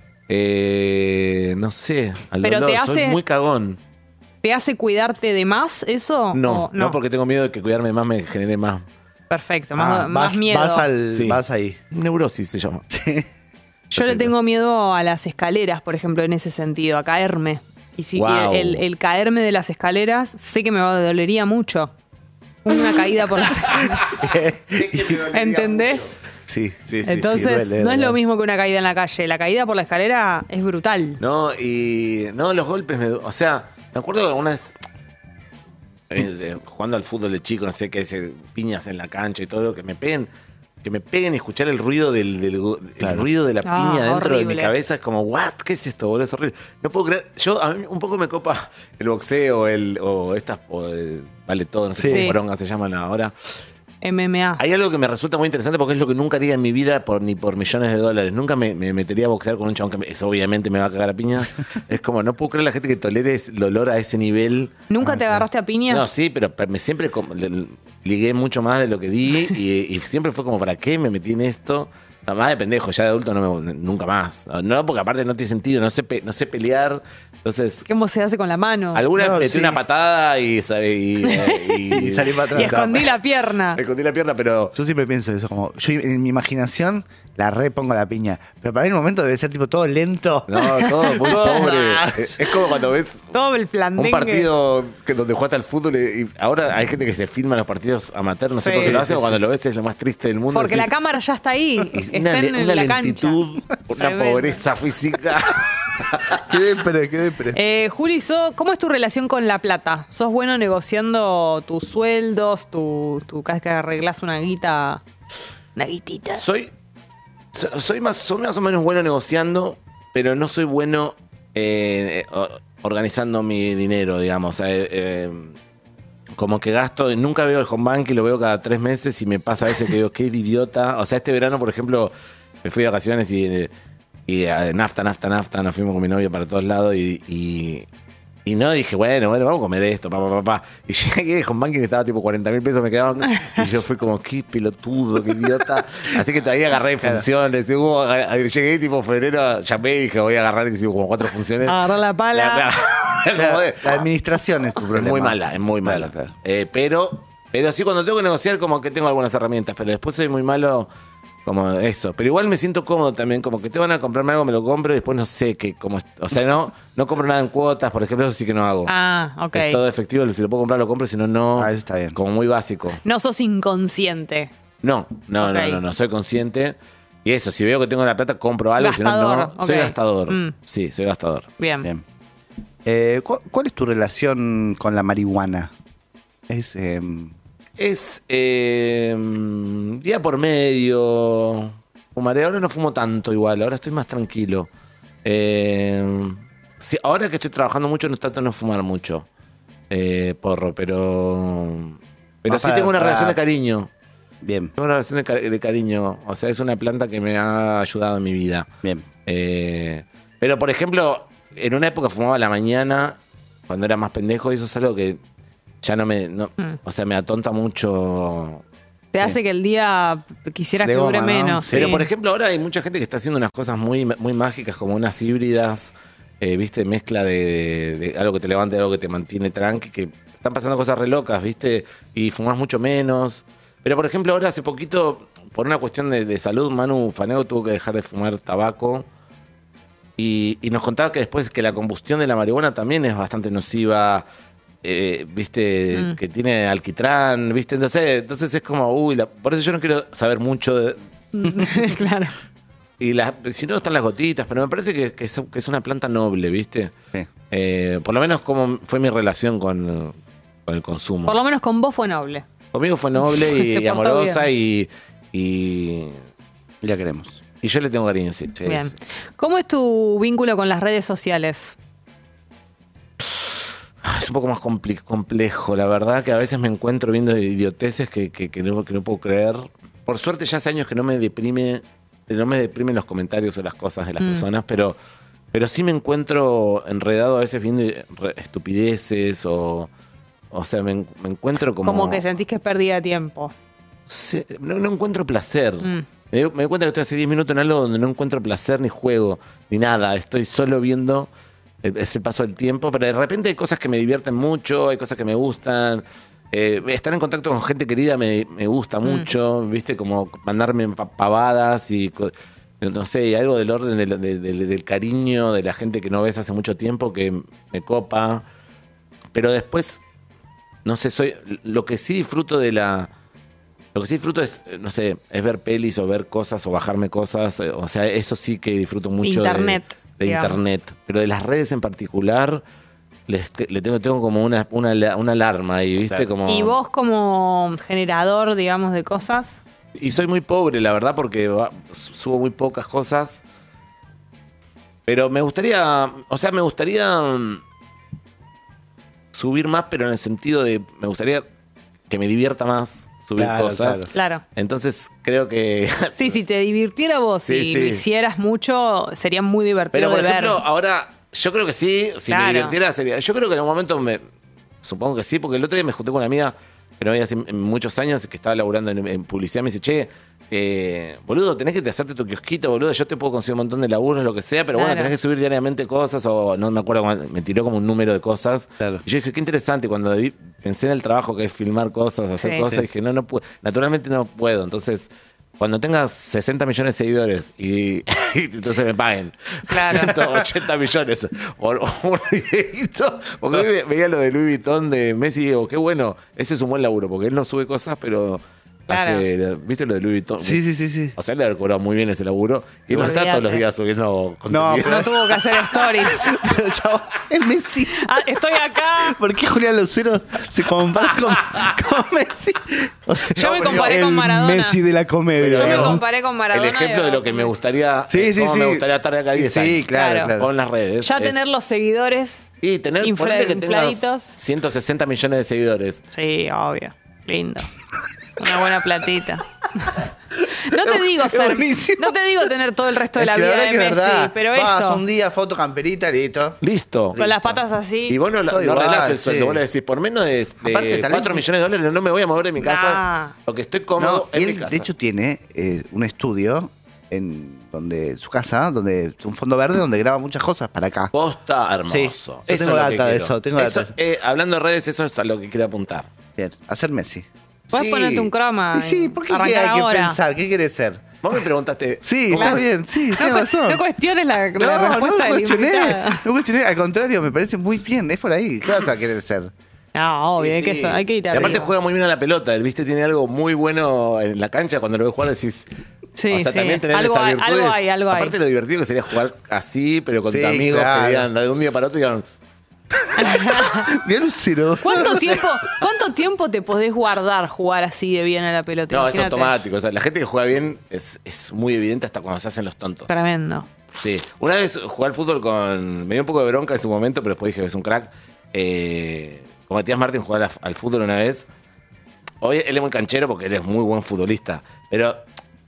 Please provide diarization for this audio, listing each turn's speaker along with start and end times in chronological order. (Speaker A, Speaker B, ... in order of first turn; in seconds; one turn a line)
Speaker A: 0.3-3.8
Speaker B: 2.4-3.2
Speaker B: 4.4-7.0
Speaker A: 6.3-8.9
Speaker B: 9.3-10.9
Speaker C: 9.8-11.8
Speaker A: 11.1-12.8
Speaker C: 12.9-13.3
Speaker A: 13.9-14.3
Speaker B: 13.9-21.9
Speaker A: 18.2-18.8
Speaker B: 22.6-24.1
Speaker A: 23.6-26.2
Speaker C: 24.2-25.2
Speaker B: 25.3-26.2
Speaker C: 26.5-28.2
Speaker A: 26.9-27.5
Speaker B: 27.1-31.2
Speaker A: 31.2-34.8
Speaker A: 36.1-40.3
Speaker A: 40.8-53.3
Speaker C: 43.0-43.3
Speaker B: 43.6-44.7
Speaker C: 52.0-52.3
Speaker B: 52.0-52.4
Speaker B: 54.0-54.6
Speaker A: 54.6-64.7
Speaker B: 64.9-66.1
Speaker C: 65.0-65.4
Speaker A: 65.9-77.9
Speaker B: 77.9-79.0
Speaker A: 78.9-83.2
Speaker C: 79.2-79.8
Speaker B: 81.2-82.0
Speaker C: 81.9-82.9
Speaker B: 82.5-83.8
Speaker A: 83.7-84.8
Speaker C: 84.7-92.4
Speaker A: 90.5-93.3
Speaker B: 90.8-91.7
Speaker B: 93.3-94.5
Speaker A: 94.0-100.9
Speaker B: 98.6-99.0
Speaker C: 98.7-99.4
Speaker B: 100.5-104.6
Speaker A: 101.9-106.5
Speaker C: 106.4-107.6
Speaker B: 107.5-115.0
Speaker B: 115.8-116.4
Speaker A: 116.4-116.7
Speaker A: 117.5-125.5
Speaker A: 126.4-132.1
Speaker A: 132.6-133.7
Speaker A: 134.3-137.9
Speaker A: 138.4-154.0
Speaker B: 151.6-152.7
Speaker C: 153.3-156.3
Speaker A: 154.9-160.9
Speaker A: 161.4-168.9
Speaker B: 168.9-169.8
Speaker A: 169.5-173.0
Speaker C: 171.6-172.2
Speaker B: 173.0-174.5
Speaker A: 174.8-181.5
Speaker B: 175.4-175.8
Speaker B: 178.8-180.6
Speaker B: 181.6-181.9
Speaker C: 182.8-185.7
Speaker C: 186.5-187.3
Speaker A: 187.8-194.7
Speaker A: 195.2-199.3
Speaker A: 199.9-203.9
Speaker C: 202.5-203.4
Speaker C: 204.4-204.7
Speaker A: 204.8-208.7
Speaker A: 209.3-215.2
Speaker A: 215.8-218.6
Speaker B: 219.1-222.1
Speaker C: 220.8-222.0
Speaker A: 221.7-239.1
Speaker A: 240.2-244.2
Speaker A: 244.8-251.0
Speaker B: 251.3-252.3
Speaker A: 253.0-256.9
Speaker A: 257.5-260.2
Speaker A: 260.7-261.4
Speaker B: 261.3-262.4
Speaker A: 262.7-266.2
Speaker B: 263.2-264.5
Speaker C: 266.8-267.4
Speaker A: 267.6-268.8
Speaker B: 268.6-271.8
Speaker A: 274.0-285.0
Speaker B: 284.2-284.4
Speaker A: 285.5-289.9
Speaker A: 290.5-292.3
Speaker B: 291.8-293.5
Speaker A: 294.1-301.3
Speaker A: 301.8-318.4
Speaker B: 309.1-309.3
Speaker A: 319.3-320.0
Speaker A: 320.9-323.1
Speaker A: 323.9-332.6
Speaker B: 329.2-330.6
Speaker A: 333.3-336.8
Speaker B: 336.5-339.6
Speaker A: 340.0-343.4
Speaker A: 345.1-347.6
Speaker A: 349.3-351.4
Speaker A: 352.1-356.4
Speaker C: 353.4-354.1
Speaker B: 354.1-354.4
Speaker B: 356.2-360.6
Speaker A: 357.5-358.0
Speaker A: 359.9-364.2
Speaker B: 362.3-362.8
Speaker A: 364.8-400.6
Speaker B: 374.8-375.1
Speaker B: 382.4-382.7
Speaker B: 389.7-390.1
Speaker B: 398.9-399.2
Speaker C: 400.4-401.2
Speaker A: 401.1-405.1
Speaker B: 402.9-403.6
Speaker C: 404.5-416.0
Speaker B: 404.8-406.4
Speaker B: 407.9-409.2
Speaker A: 411.4-411.7
Speaker B: 413.3-414.8
Speaker A: 413.4-414.0
Speaker A: 415.4-421.4
Speaker B: 415.5-417.5
Speaker C: 418.1-420.5
Speaker B: 419.9-420.4
Speaker B: 421.0-422.5
Speaker A: 422.6-426.0
Speaker B: 423.0-424.4
Speaker B: 426.1-427.7
Speaker B: 428.4-430.0
Speaker B: 430.6-435.0
Speaker C: 430.6-432.2
Speaker C: 433.1-436.6
Speaker A: 436.6-437.2
Speaker C: 437.1-437.6
Speaker B: 437.2-438.2
Speaker A: 438.1-444.9
Speaker C: 438.5-439.6
Speaker C: 440.6-441.5
Speaker B: 442.6-443.3
Speaker C: 444.0-451.1
Speaker A: 451.1-456.1
Speaker C: 451.9-453.9
Speaker C: 456.4-457.3
Speaker A: 457.7-458.3
Speaker B: 457.7-460.2
Speaker C: 458.7-461.0
Speaker A: 461.2-462.6
Speaker C: 462.0-463.8
Speaker B: 462.4-462.6
Speaker B: 463.1-466.2
Speaker C: 464.6-469.5
Speaker B: 469.9-471.7
Speaker A: 470.4-475.7
Speaker B: 476.2-478.4
Speaker A: 476.3-482.2
Speaker C: 480.3-481.3
Speaker B: 483.2-483.9
Speaker C: 483.7-485.4
Speaker B: 484.8-489.5
Speaker A: 485.1-485.4
Speaker A: 488.9-493.1
Speaker B: 493.1-493.7
Speaker A: 493.9-501.5
Speaker A: 502.4-505.2